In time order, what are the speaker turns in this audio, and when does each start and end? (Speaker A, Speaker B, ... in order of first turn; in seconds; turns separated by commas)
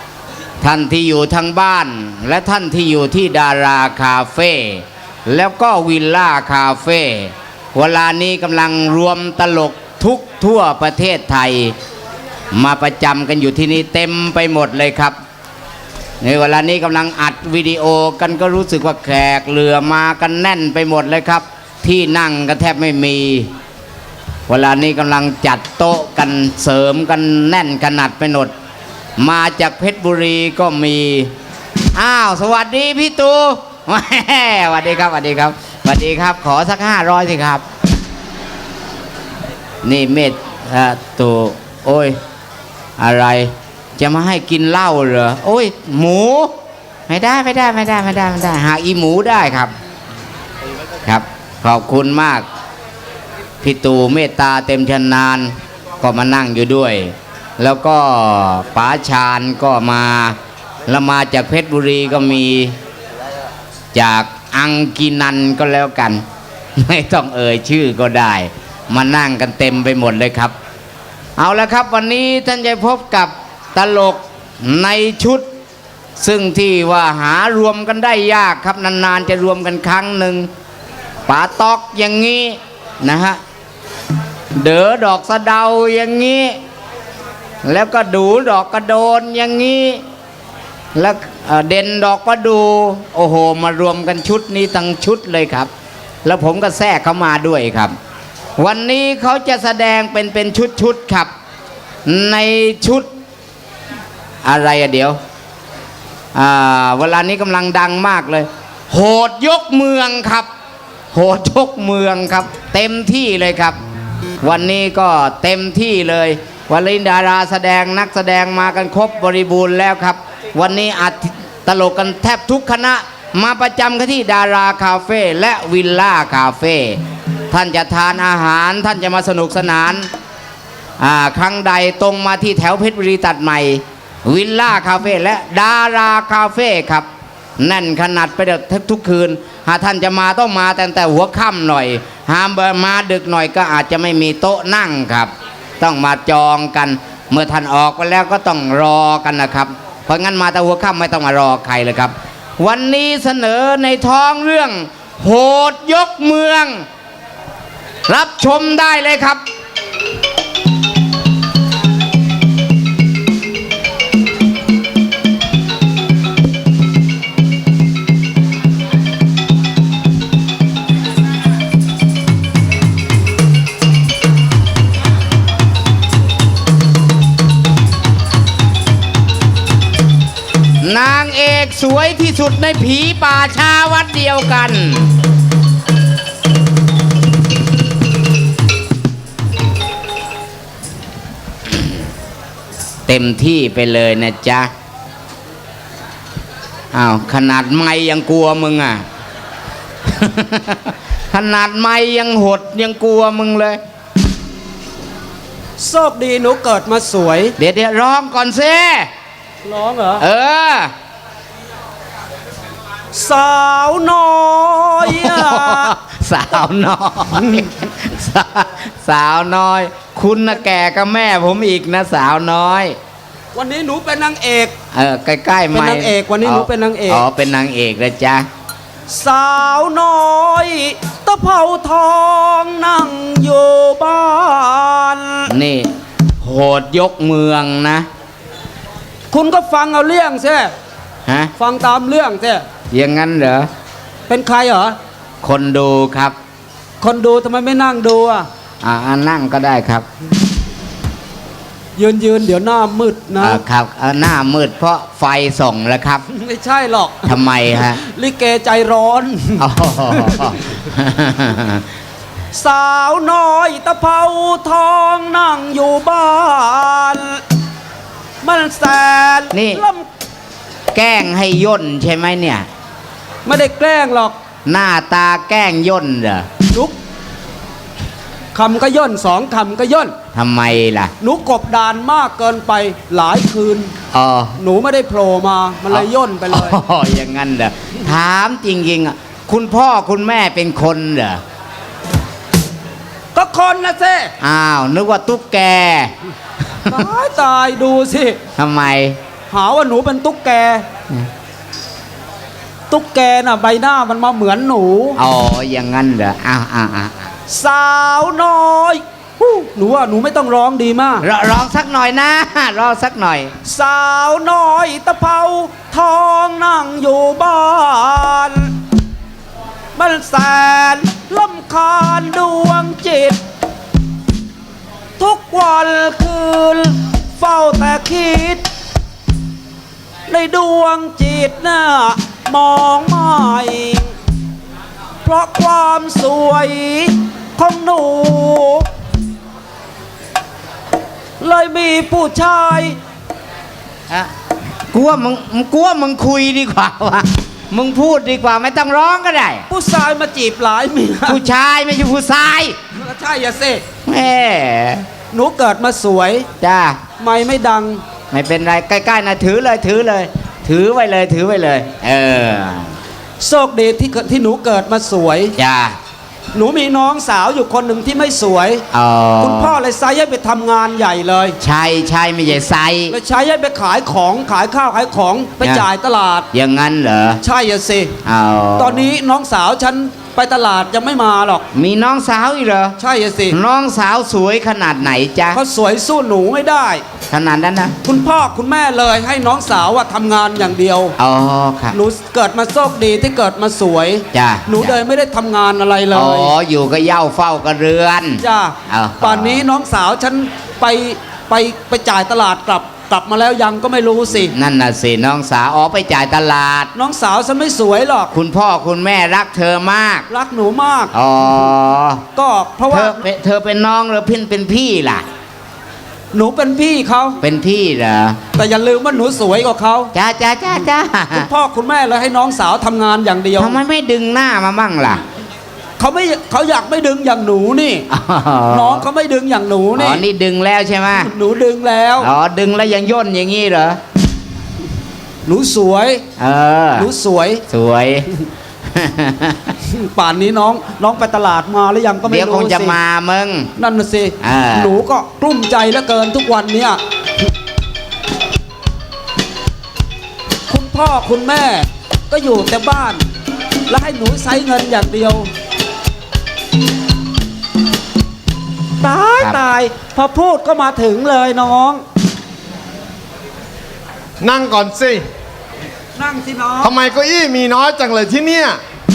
Speaker A: 0.6-11.7, Speaker A: 12.5-15.2, Speaker A: 16.2-23.5, Speaker A: 24.5-28.5, Speaker A: 29.2-31.3, Speaker A: 31.9-37.6, Speaker A: 39.8-42.2, Speaker A: 43.0-46.5, Speaker A: 47.1-49.7, Speaker A: 51.0-52.4, Speaker A: 53.6-62.8, Speaker A: 63.9-66.2, Speaker A: 66.8-70.5, Speaker A: 71.4-75.5, Speaker A: 76.2-80.5, Speaker A: 81.3-83.4, Speaker A: 84.6-86.6, Speaker A: 87.6-90.0, Speaker A: 90.9-95.7, Speaker A: 96.2-97.9, Speaker A: 98.6-101.3, Speaker A: 102.0-103.1, Speaker A: 104.4-105.2, Speaker A: 106.3-110.5, Speaker A: 111.1-113.8, Speaker A: 114.4-130.1, Speaker A: 131.0-137.1, Speaker A: 137.6-156.9, Speaker A: 158.1-159.4, Speaker A: 180.8-185.2, Speaker A: 191.7-192.0, Speaker A: 193.1-194.7, Speaker A: 196.9-199.0, Speaker A: 200.0-203.8, Speaker B: 205.8-207.5, Speaker A: 207.6-209.1, Speaker B: 209.6-210.2, Speaker A: 210.2-210.9, Speaker B: 213.1-215.9, Speaker A: 215.0-223.0, Speaker B: 223.5-224.7, Speaker A: 224.9-228.5, Speaker B: 225.7-227.2, Speaker B: 229.1-235.5, Speaker A: 235.5-235.9, Speaker A: 236.4-238.1, Speaker B: 239.3-240.7, Speaker A: 241.2-241.5, Speaker B: 241.6-242.6, Speaker A: 242.9-243.7, Speaker B: 244.3-245.0, Speaker A: 245.4-246.3, Speaker B: 247.0-248.5, Speaker A: 248.8-250.1, Speaker B: 252.0-253.6, Speaker A: 253.4-256.2, Speaker B: 256.3-260.5, Speaker A: 257.2-258.0, Speaker A: 259.6-261.8, Speaker B: 262.5-267.4, Speaker B: 268.4-270.1, Speaker A: 269.5-269.8, Speaker A: 270.9-272.7, Speaker B: 273.4-274.3, Speaker A: 274.6-276.5, Speaker B: 276.7-276.9, Speaker B: 278.5-280.1, Speaker A: 280.3-281.1, Speaker B: 281.2-283.9, Speaker A: 284.1-284.6, Speaker B: 284.6-286.8, Speaker A: 285.9-291.4, Speaker B: 293.3-294.3, Speaker A: 294.4-296.1, Speaker B: 296.9-298.4, Speaker A: 298.6-299.2, Speaker B: 299.5-300.9, Speaker B: 302.9-305.2, Speaker A: 305.2-307.3, Speaker B: 307.5-311.2, Speaker A: 311.2-313.5, Speaker B: 313.6-318.7, Speaker B: 319.9-323.4, Speaker B: 325.2-328.6, Speaker B: 330.3-334.1, Speaker B: 335.2-338.9, Speaker B: 341.4-343.0, Speaker A: 344.9-349.6, Speaker B: 349.7-351.4, Speaker A: 351.2-352.8, Speaker B: 352.9-353.8, Speaker A: 354.1-355.1, Speaker B: 355.3-356.4, Speaker A: 356.6-357.0, Speaker B: 357.2-358.0, Speaker A: 358.3-362.9, Speaker B: 363.4-365.5, Speaker A: 365.6-366.0, Speaker B: 366.5-368.8, Speaker A: 368.9-369.8, Speaker B: 369.4-371.6, Speaker A: 371.6-373.1, Speaker B: 373.1-376.5, Speaker A: 375.6-375.9, Speaker A: 376.5-377.4, Speaker B: 377.4-378.1, Speaker A: 378.2-379.1, Speaker B: 378.8-381.6, Speaker A: 381.7-382.9, Speaker B: 383.0-383.6, Speaker A: 383.5-385.6, Speaker B: 385.5-387.0, Speaker A: 387.3-387.9, Speaker B: 388.0-391.1, Speaker A: 391.2-391.9, Speaker B: 391.9-396.5, Speaker A: 394.3-395.0, Speaker A: 396.1-399.6, Speaker B: 398.4-404.5, Speaker A: 404.4-406.9, Speaker B: 406.9-408.3, Speaker A: 408.3-410.3, Speaker B: 410.3-411.1, Speaker A: 411.1-412.2, Speaker B: 412.4-413.2, Speaker A: 412.9-415.2, Speaker B: 416.3-417.4, Speaker A: 417.4-418.4, Speaker B: 418.5-420.1, Speaker A: 420.1-421.5, Speaker B: 421.3-423.8, Speaker A: 423.6-425.2, Speaker B: 426.0-428.1, Speaker A: 428.1-429.1, Speaker B: 428.7-430.2, Speaker A: 429.9-431.3, Speaker B: 431.1-432.3, Speaker A: 432.2-434.0, Speaker B: 435.4-436.2, Speaker A: 436.4-437.1, Speaker B: 436.9-437.6, Speaker A: 437.7-438.3, Speaker A: 438.8-439.7, Speaker B: 439.8-442.9, Speaker A: 442.2-443.7, Speaker B: 443.8-447.0, Speaker A: 444.4-444.9, Speaker B: 450.7-453.2, Speaker B: 453.9-455.5, Speaker B: 459.0-462.0, Speaker C: 464.4-465.2, Speaker B: 466.1-466.9, Speaker C: 466.8-468.8